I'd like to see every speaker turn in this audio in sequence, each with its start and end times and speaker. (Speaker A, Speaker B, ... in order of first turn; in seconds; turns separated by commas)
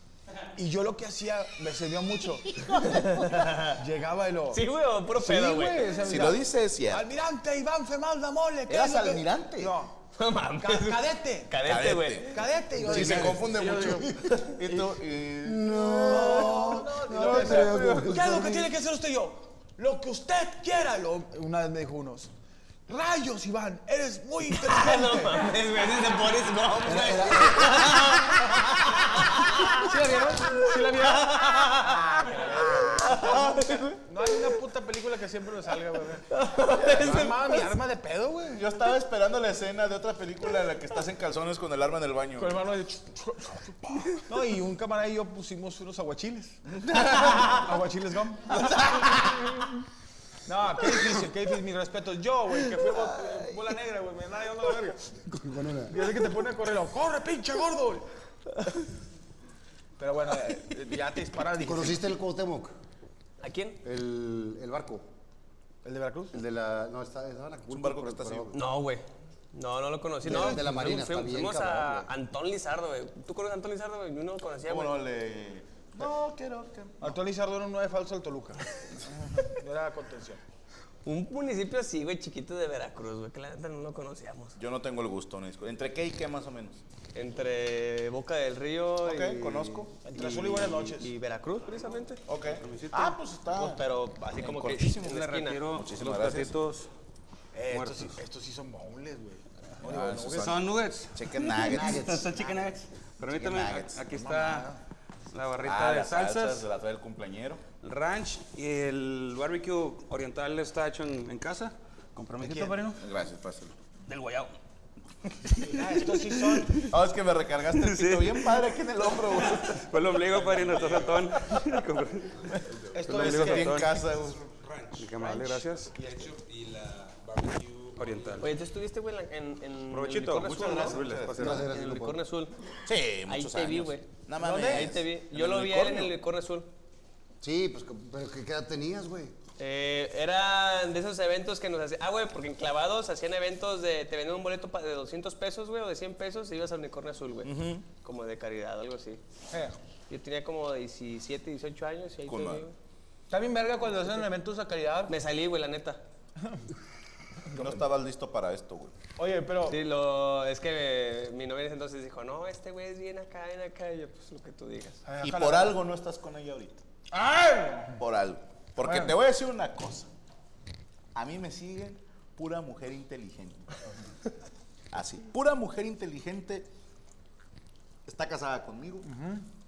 Speaker A: 0.5-2.5, Speaker B: 2.7-3.8, Speaker A: 3.8-4.6, Speaker B: 4.5-6.0, Speaker A: 5.2-9.9, Speaker C: 6.0-7.1, Speaker C: 8.7-9.8, Speaker B: 10.2-12.4, Speaker A: 10.6-11.5, Speaker C: 11.6-18.2, Speaker A: 12.3-14.2, Speaker D: 15.4-18.7, Speaker A: 16.1-22.3, Speaker A: 22.9-25.6, Speaker B: 24.6-29.9, Speaker D: 26.8-27.9, Speaker A: 29.7-31.1, Speaker B: 30.4-32.1, Speaker A: 31.9-36.2, Speaker C: 33.0-33.9, Speaker B: 33.0-33.9, Speaker B: 36.3-37.6, Speaker C: 36.8-37.2, Speaker A: 36.8-38.6, Speaker C: 38.5-42.6, Speaker A: 42.4-46.6, Speaker C: 46.7-47.6, Speaker A: 47.1-48.8, Speaker C: 48.8-49.1, Speaker A: 50.5-55.1, Speaker D: 55.3-56.0, Speaker A: 55.9-58.1, Speaker A: 60.0-62.1, Speaker D: 61.6-62.7, Speaker B: 63.4-63.8, Speaker D: 63.8-65.0, Speaker A: 65.8-66.3, Speaker D: 66.3-68.6, Speaker C: 67.7-68.6, Speaker B: 68.5-74.9, Speaker A: 70.2-70.7, Speaker D: 70.2-72.1, Speaker C: 74.7-77.2, Speaker A: 77.0-80.4, Speaker B: 81.0-84.6, Speaker C: 84.6-86.8, Speaker B: 87.1-92.2, Speaker C: 89.0-89.9, Speaker A: 90.0-91.1, Speaker C: 92.3-96.6, Speaker E: 92.5-93.2, Speaker B: 93.5-95.6, Speaker E: 95.1-96.9, Speaker A: 97.5-100.6, Speaker E: 97.7-98.2, Speaker C: 99.8-100.6, Speaker E: 99.9-104.7, Speaker C: 101.1-102.1, Speaker D: 101.6-102.4, Speaker A: 102.2-102.7, Speaker C: 103.3-104.0, Speaker A: 104.1-104.8, Speaker E: 105.3-106.7, Speaker C: 105.6-107.6, Speaker E: 107.8-113.0, Speaker A: 112.4-112.9, Speaker C: 113.0-113.8, Speaker E: 114.0-114.5, Speaker C: 115.3-115.8, Speaker A: 115.6-116.8, Speaker C: 116.7-119.8, Speaker E: 117.8-118.5, Speaker E: 119.3-128.6, Speaker C: 122.5-124.4, Speaker A: 122.9-123.8, Speaker A: 125.0-126.3, Speaker B: 128.4-132.7, Speaker E: 129.9-131.7, Speaker C: 130.3-131.6, Speaker D: 131.3-132.2, Speaker C: 132.8-136.1, Speaker B: 133.3-136.7, Speaker A: 134.4-134.9, Speaker D: 137.4-139.3, Speaker B: 139.6-149.2, Speaker C: 147.4-147.8, Speaker A: 149.5-149.8, Speaker B: 150.1-152.7, Speaker C: 152.2-152.6, Speaker A: 153.3-155.1, Speaker B: 155.1-156.0, Speaker A: 157.5-157.8, Speaker C: 157.6-158.9, Speaker A: 159.2-159.8, Speaker B: 159.7-165.0, Speaker A: 165.0-165.8, Speaker C: 165.2-166.8, Speaker A: 167.1-168.0, Speaker C: 167.9-170.1, Speaker A: 168.8-169.2, Speaker C: 171.1-173.8, Speaker C: 174.9-176.7, Speaker C: 178.1-179.1, Speaker A: 179.0-179.4